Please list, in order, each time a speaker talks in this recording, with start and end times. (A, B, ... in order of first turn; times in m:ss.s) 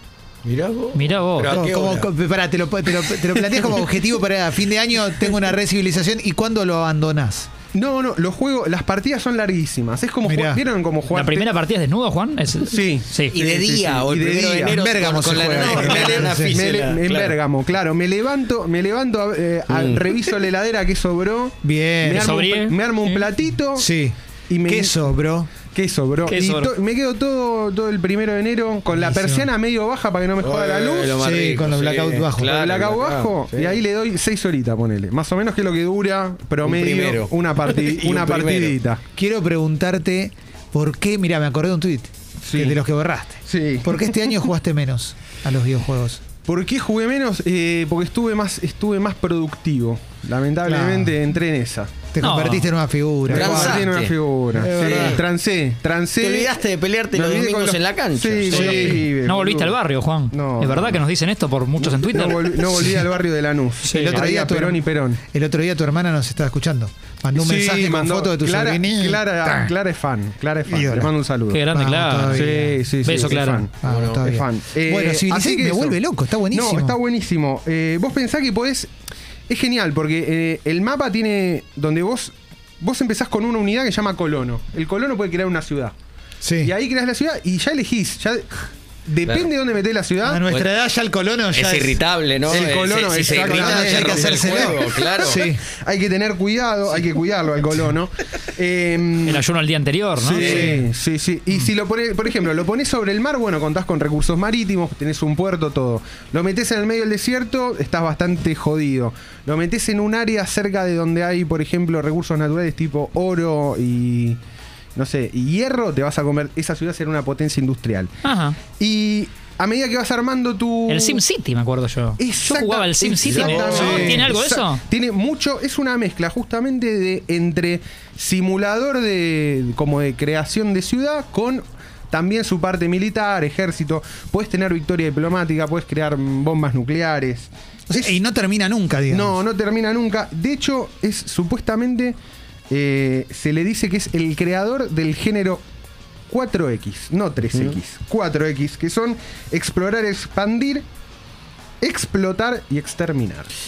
0:00.4-0:02.1 A
0:00.9-0:01.6 B
0:01.5-0:07.5 C
0:03.5-0:03.8 D
0:07.7-0:11.5 D
0:10.2-0:10.6 C
0:11.1-0:13.4 B
0:12.7-0:14.8 D
0:13.3-0:17.4 A
0:14.7-0:16.6 C
0:15.5-0:23.9 D
0:19.7-0:20.3 A
0:21.6-0:22.3 C
0:22.2-0:23.3 B
0:23.8-0:25.5 C
0:24.5-0:25.1 D
0:25.7-0:31.2 D
0:26.2-0:26.7 B
0:28.9-0:29.5 C
0:30.4-0:33.8 A
0:31.2-0:32.5 C
0:32.4-0:39.0 D
0:36.6-0:38.8 A
0:39.1-0:46.2 C
0:42.4-0:42.8 D
0:43.4-0:44.2 D
0:46.4-0:51.9 D
0:50.6-0:51.2 C
0:52.1-0:53.9 C
0:52.2-0:52.7 B
0:53.3-0:56.6 D
0:53.3-0:54.1 A
0:54.5-0:55.2 C
0:54.7-0:55.2 A
0:56.2-0:59.0 A
0:57.1-0:59.8 D
0:58.5-1:02.5 B
0:58.6-0:59.1 C
1:00.3-1:01.0 D
1:01.8-1:05.2 D
1:02.7-1:03.0 C
1:03.8-1:04.2 B
1:03.9-1:09.7 C
1:07.3-1:11.6 D
1:10.7-1:11.1 C
1:11.5-1:12.5 B
1:11.7-1:13.0 C
1:12.2-1:18.9 D
1:13.0-1:13.7 B
1:13.8-1:17.0 C
1:13.8-1:14.2 A
1:19.5-1:25.9 D
1:26.4-1:26.8 C
1:26.6-1:28.5 D
1:29.0-1:30.5 D
1:30.2-1:32.0 C
1:31.5-1:35.4 A
1:32.4-1:39.4 D
1:33.3-1:35.6 C
1:39.2-1:40.7 B
1:40.2-1:54.4 D
1:40.2-1:40.8 C
1:55.0-1:58.1 D
1:58.2-1:58.6 B
1:58.8-2:01.2 D
2:00.9-2:04.8 B
2:02.2-2:18.2 D
2:03.3-2:04.3 C
2:17.9-2:19.4 C
2:19.1-2:22.2 D
2:22.7-2:25.6 D
2:26.3-2:30.8 D
2:31.8-2:33.5 D